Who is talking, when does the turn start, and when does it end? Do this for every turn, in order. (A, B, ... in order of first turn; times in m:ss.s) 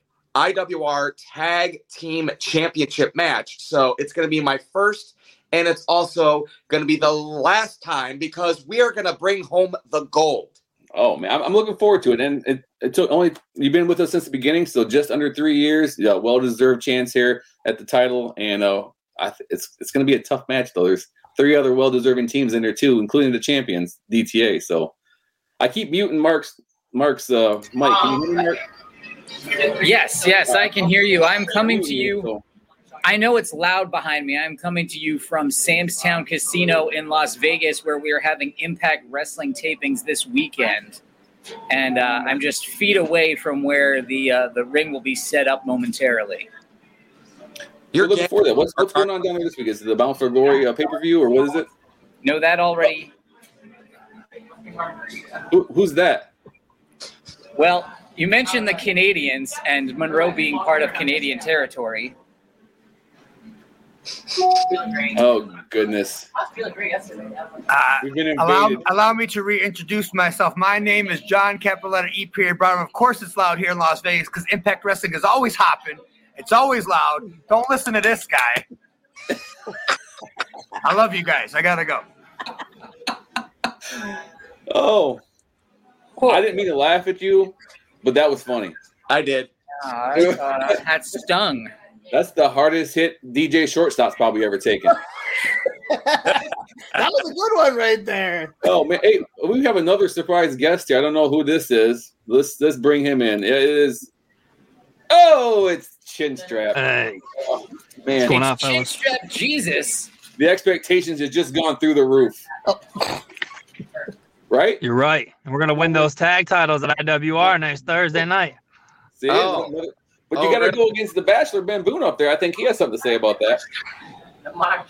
0:00.3-0:10.5 A
0:10.9-0:24.9 B
0:25.6-0:28.6 B
0:29.8-0:32.3 C
0:30.4-0:30.8 B
0:31.4-0:32.4 B
0:33.0-0:41.0 C
0:41.7-0:46.5 C
0:47.9-0:49.1 A
0:47.9-0:51.7 B
0:52.2-0:53.1 C
0:55.5-0:56.3 B
0:57.6-1:02.1 C
1:05.0-1:06.3 B
1:07.7-1:18.6 D
1:08.0-1:08.8 B
1:20.8-1:22.0 D
1:24.7-1:25.2 B
1:26.2-1:28.8 B
1:29.1-1:29.5 A
1:29.8-1:31.7 C
1:30.1-1:30.7 B
1:32.1-1:35.0 B
1:35.9-1:36.4 E
1:36.9-1:38.5 E
1:38.6-1:44.1 B
1:45.1-1:46.8 B
1:46.7-1:47.2 F
1:47.4-1:48.4 B
1:48.2-1:48.9 F
1:48.3-1:50.1 C
1:50.4-1:52.4 B
1:54.5-1:54.8 B
1:54.8-1:58.6 F
1:59.2-2:03.6 B
1:59.3-1:59.7 A
2:00.3-2:00.8 A